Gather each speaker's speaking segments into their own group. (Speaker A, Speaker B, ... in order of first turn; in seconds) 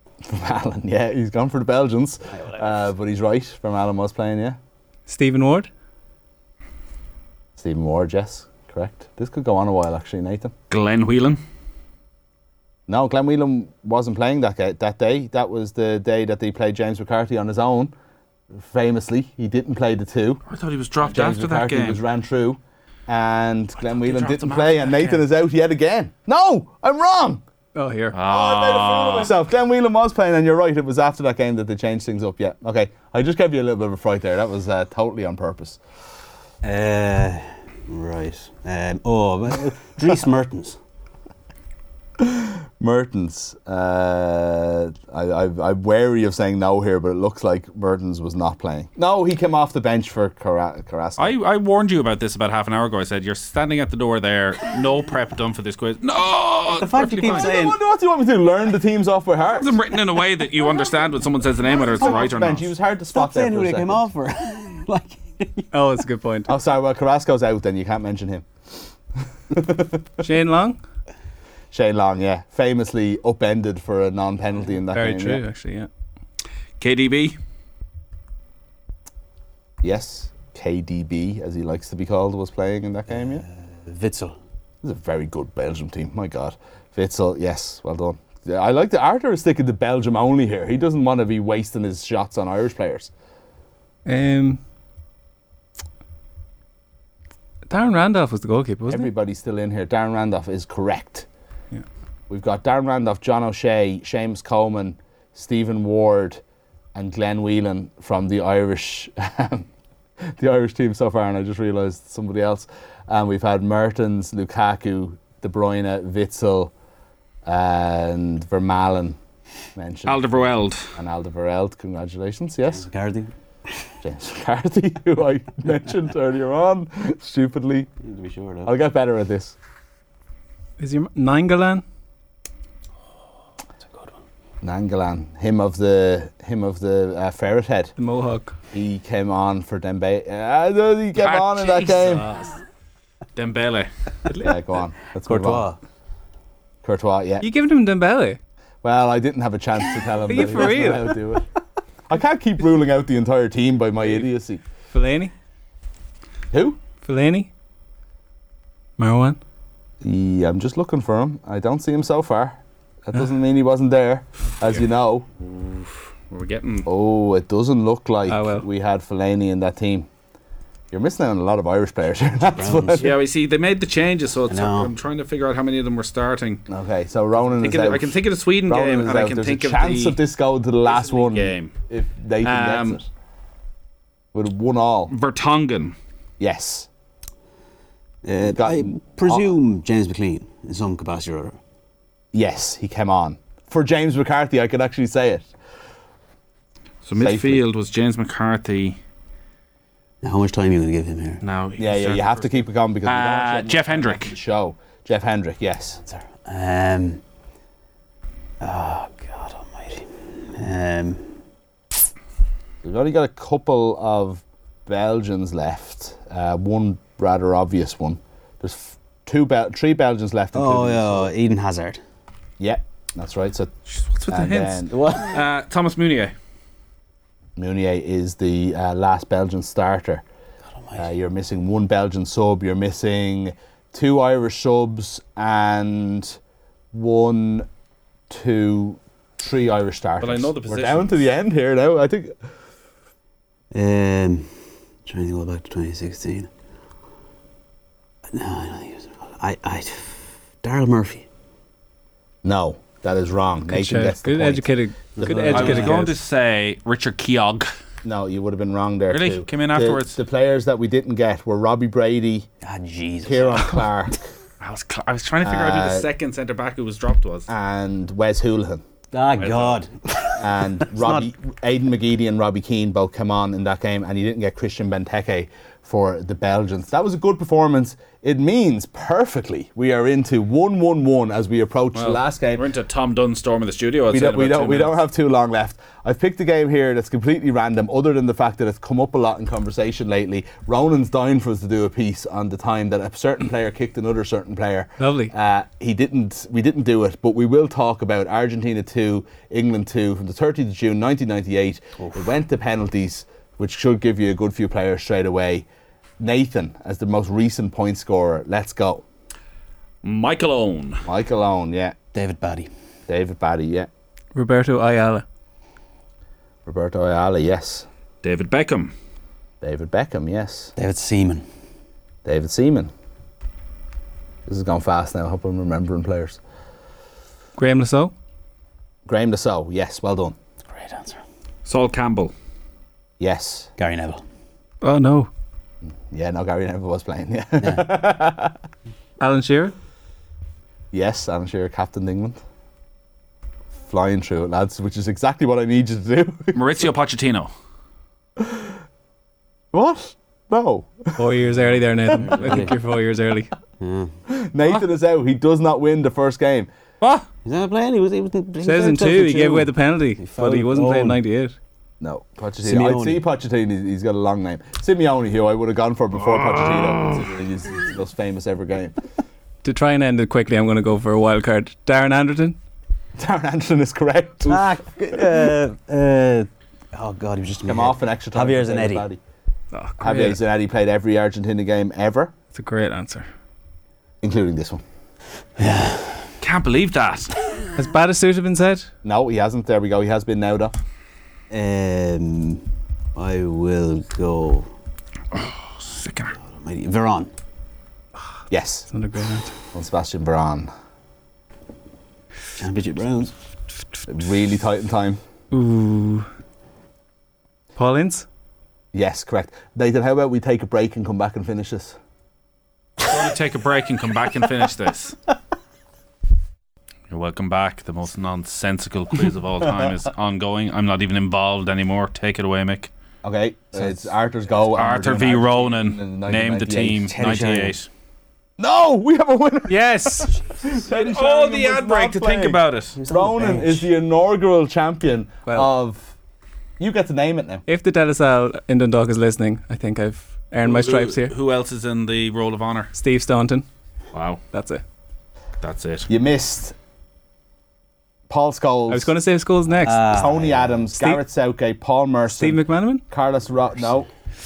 Speaker A: 0.2-4.6, 7.6-10.5, 12.9-17.9, 18.6-20.4, 21.0-27.4, 28.3-35.8, 42.2-51.4, 57.2-59.8, 61.8-64.1, 66.5-68.5, 69.5-70.0, 71.7-75.4, 79.8-83.4, 84.8-93.1, 98.9-101.3, 102.3-106.4, 106.9-109.7, 110.3-116.7, 117.4-119.2, 119.8-122.9, 124.0-127.9, 128.6-129.6, 134.6-137.9, 138.7-142.3, 144.3-145.7, 146.8-147.5, 148.8-151.5, 152.1-154.6, 156.5-156.8, 160.0-165.2, 166.8-170.1, 170.9-173.2, 176.7-183.1, 184.3-185.1, 186.4-186.9, 188.4-189.5, 192.3-195.5, 197.2-197.6, 201.8-206.0, 212.8-221.3, 222.6-223.7, 224.3-224.9, 227.6-230.2, 230.9-236.4, 236.9-237.7, 238.3-242.3, 252.4-256.0, 258.0-262.5, 263.2-264.2, 265.4-266.1, 267.5-268.8, 270.4-282.7, 284.1-305.7, 306.2-309.0, 311.0-311.9, 313.1-313.9, 316.6-317.9, 319.6-320.7, 322.2-322.9, 324.4-326.4, 329.1-330.4, 333.2-333.7, 335.9-338.5, 340.9-342.4, 343.8-346.6, 349.7-351.4, 352.0-352.6, 354.3-357.2, 362.0-369.0, 373.2-375.5, 377.6-379.2, 380.0-382.3, 384.2-384.8, 389.0-390.7, 398.5-398.9, 399.7-400.7, 404.1-405.2, 408.9-412.0, 423.2-427.1, 428.6-436.2, 436.8-437.6, 446.1-446.7, 448.3-449.1, 450.1-454.1
Speaker B: 2.3-2.9, 36.6-40.8, 56.7-57.8, 62.0-62.3, 63.1-66.0, 83.1-84.4, 122.7-123.3, 128.0-128.7, 145.2-145.8, 172.5-173.1, 174.5-174.9, 188.2-191.6, 200.2-201.4, 206.0-207.2, 208.6-211.3, 220.5-222.0, 224.9-225.5, 230.7-231.0, 243.7-244.5, 245.1-246.5, 248.3-251.3, 255.2-256.1, 262.6-263.7, 269.1-271.3, 312.1-312.7, 320.8-321.4, 330.7-331.2, 333.8-334.2, 352.1-352.8, 353.8-354.1, 357.4-361.2, 362.6-363.2, 374.4-379.1, 385.6-386.3, 391.5-394.7, 396.4-397.3, 402.6-403.3, 423.8-424.1, 427.0-427.8, 432.9-433.9, 449.8-450.8
Speaker C: 5.1-5.7, 27.7-28.2, 65.7-66.5, 70.2-70.8, 74.9-75.9, 94.0-94.6, 97.7-99.1, 130.8-131.8, 138.0-138.5, 147.4-148.4, 150.3-151.1, 154.9-155.3, 157.0-157.5, 159.0-159.4, 168.3-168.7, 253.7-256.2, 295.0-295.3, 314.3-315.2, 327.6-328.1, 334.8-335.3, 339.2-339.8, 351.2-353.5, 358.6-361.6, 369.6-372.6, 379.7-380.4, 382.5-383.3, 387.8-388.9, 398.9-399.5, 405.5-406.3, 407.8-408.2, 429.7-430.4, 435.4-435.7, 437.7-441.3, 442.9-443.6, 444.5-444.8, 448.9-450.1, 450.9-451.2, 452.3-453.0
Speaker D: 10.7-11.4, 20.5-22.0, 23.8-25.2, 28.1-29.3, 51.2-57.5, 59.5-62.7, 76.8-77.4, 120.0-120.9, 141.2-142.6, 143.3-143.9, 165.4-166.9, 173.0-176.6, 177.4-180.2, 180.8-181.7, 182.4-183.0, 185.1-185.9, 197.0-199.0, 201.4-204.3, 223.9-226.3, 240.2-241.2, 255.5-257.7, 259.1-260.2, 264.6-267.5, 269.4-269.8, 281.9-285.0, 310.0-311.0, 318.2-318.9, 331.6-332.3, 346.5-347.5, 386.4-387.3, 395.3-396.4, 413.0-415.2, 417.1-422.9, 424.7-427.9, 430.9-433.0, 440.6-442.9, 444.1-444.4, 445.6-446.1